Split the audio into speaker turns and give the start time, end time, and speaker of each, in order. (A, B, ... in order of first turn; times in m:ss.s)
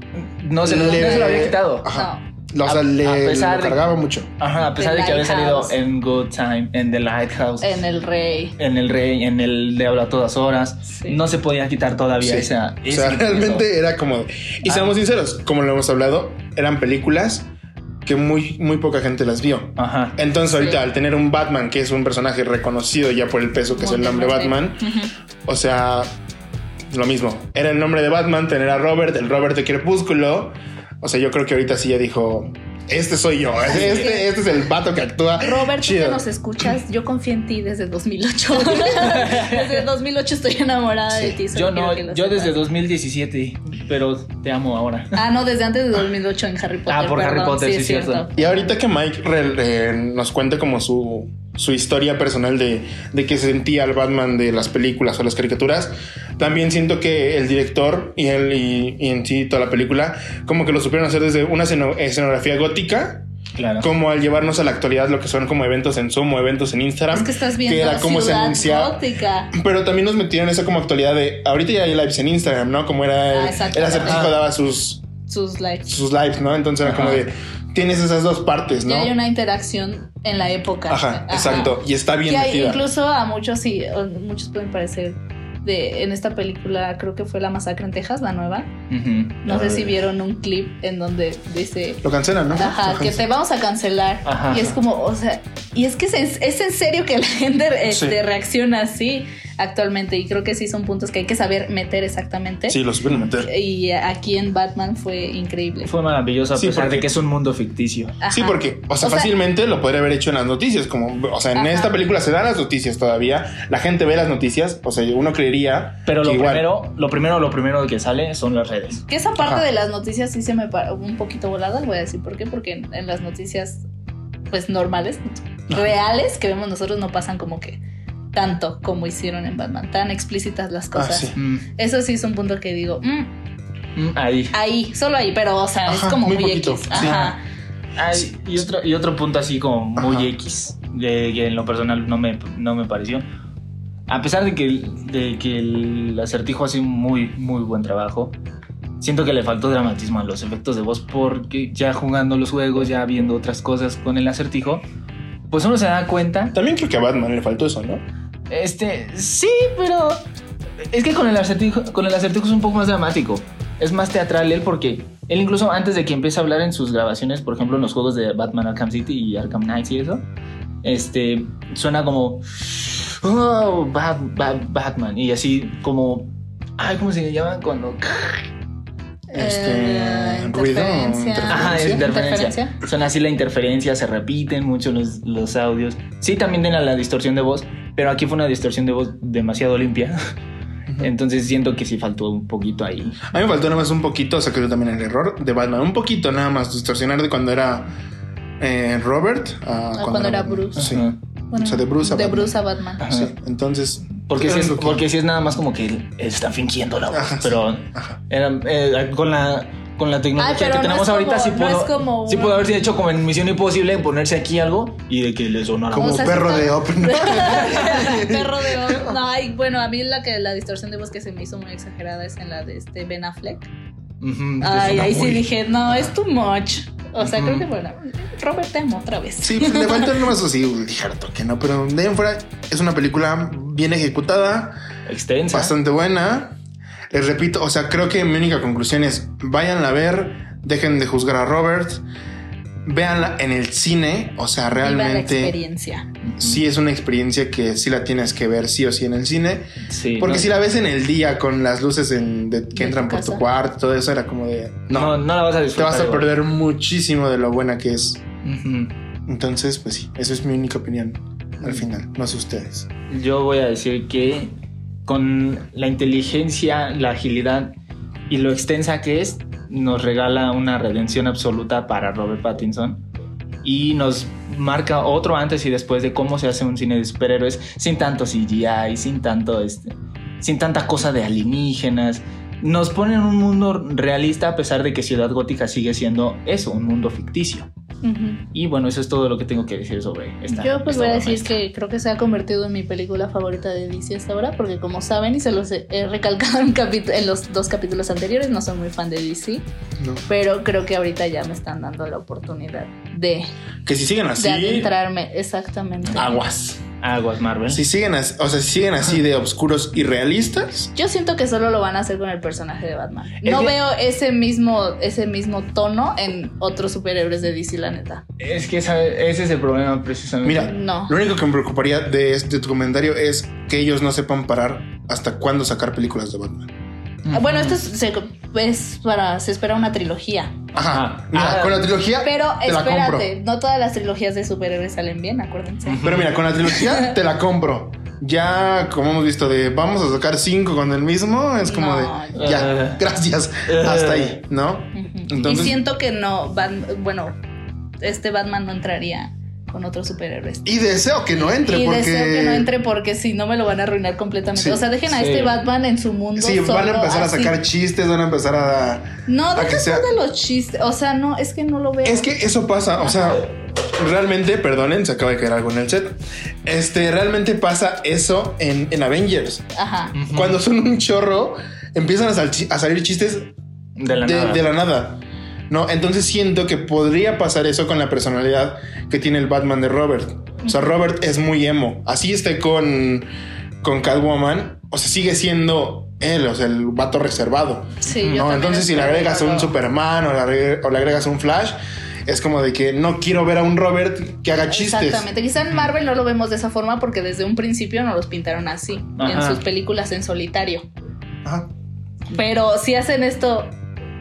0:00.2-0:01.9 A
0:00.6-0:04.3 B
0:00.7-0:02.3 C
0:02.6-0:03.8 A
0:04.4-0:07.8 A
0:04.8-0:05.8 C
0:07.6-0:08.6 C
0:08.6-0:13.7 A
0:10.9-0:11.2 C
0:12.2-0:17.5 B
0:14.6-0:15.0 A
0:18.0-0:24.8 B
0:19.8-0:20.2 A
0:20.5-0:20.8 C
0:23.8-0:25.1 C
0:25.4-0:26.1 B
0:26.9-0:36.3 B
0:33.7-0:34.3 C
0:33.8-0:34.0 A
0:35.4-0:42.6 C
0:38.8-0:39.8 A
0:41.5-0:45.2 A
0:45.1-0:48.7 C
0:46.9-0:48.3 A
0:48.4-1:03.3 B
1:03.6-1:03.9 A
1:03.8-1:09.0 B
1:07.1-1:09.5 C
1:09.5-1:15.0 B
1:13.3-1:14.3 C
1:14.1-1:14.3 A
1:15.3-1:15.9 C
1:15.9-1:19.1 B
1:16.8-1:17.3 A
1:18.9-1:28.7 C
1:20.9-1:22.8 B
1:28.9-1:29.9 A
1:29.4-1:42.8 C
1:32.0-1:33.2 B
1:34.2-1:34.7 A
1:37.9-1:38.2 B
1:42.7-1:43.5 B
1:43.4-1:45.9 C
1:45.8-1:48.2 A
1:46.6-1:47.1 B
1:48.2-1:49.3 C
1:48.3-1:56.7 B
1:51.6-1:52.0 C
1:56.1-1:59.0 A
1:59.1-2:03.8 C
2:04.5-2:07.8 C
2:08.3-2:13.3 C
2:11.0-2:11.4 B
2:11.4-2:11.7 A
2:14.0-2:14.6 A
2:14.5-2:17.4 C
2:15.9-2:17.3 B
2:16.9-2:17.4 A
2:18.0-2:23.3 A
2:20.0-2:20.3 B
2:24.1-2:28.4 A
2:29.0-2:34.8 A
2:35.5-2:36.6 A
2:36.5-2:38.0 B
2:38.5-2:40.2 A
2:40.9-2:50.3 A
2:50.8-2:58.5 A
2:59.3-3:02.1 B
2:59.3-3:02.8 C
3:01.5-3:10.2 A
3:11.0-3:13.2 A
3:13.3-3:17.9 B
3:18.6-3:25.0 B
3:20.0-3:20.9 C
3:20.8-3:21.2 A
3:21.5-3:23.0 C
3:23.0-3:23.3 A
3:24.2-3:36.6 A
3:27.1-3:28.2 B
3:30.4-3:32.7 C
3:35.9-3:39.2 B
3:36.0-3:43.7 C
3:44.2-3:45.4 A
3:44.6-3:50.2 C
3:47.2-3:47.7 A
3:49.4-3:54.8 B
3:55.1-3:55.7 A
3:55.5-3:56.6 B
3:57.1-4:02.0 B
4:02.8-4:05.6 B
4:04.8-4:06.1 C
4:06.2-4:06.6 A
4:06.4-4:09.7 B
4:09.9-4:10.5 A
4:10.2-4:15.2 B
4:12.8-4:13.4 C
4:14.9-4:16.3 A
4:15.7-4:18.2 B
4:18.4-4:19.0 A
4:19.3-4:22.9 B
4:23.1-4:27.8 A
4:28.3-4:33.0 A
4:33.6-4:47.7 A
4:48.0-4:48.4 C
4:48.5-4:51.6 A
4:50.5-4:59.7 C
5:00.0-5:00.2 B
5:00.3-5:03.5 C
5:03.8-5:04.9 B
5:04.4-5:06.4 C
5:06.1-5:06.8 B
5:07.0-5:07.8 A
5:07.7-5:10.9 B
5:11.0-5:18.2 C
5:13.4-5:13.8 A
5:18.4-5:20.8 A
5:20.4-5:26.7 B
5:20.6-5:21.2 C
5:27.2-5:27.8 A
5:27.3-5:30.6 C
5:30.7-5:33.3 B
5:30.8-5:31.9 A
5:32.2-5:36.0 C
5:35.9-5:36.4 A
5:36.0-5:45.8 B
5:36.7-5:37.1 C
5:41.6-5:42.6 C
5:42.4-5:43.1 A
5:43.7-5:44.4 A
5:44.9-5:47.4 C
5:48.0-5:50.7 C
5:50.6-5:52.7 B
5:51.4-5:57.6 C
5:54.6-5:54.8 B
5:55.1-5:55.6 A
5:56.4-6:00.0 B
5:59.3-6:02.3 C
6:02.0-6:09.6 B
6:03.0-6:03.4 C
6:09.8-6:10.2 C
6:10.1-6:10.6 A
6:10.3-6:13.5 B
6:14.0-6:14.7 A
6:14.2-6:23.3 B
6:20.6-6:21.0 C
6:23.8-6:35.3 B
6:28.0-6:29.7 C
6:34.7-6:40.9 C
6:39.2-6:39.6 A
6:41.4-6:41.7 B
6:42.3-6:43.8 C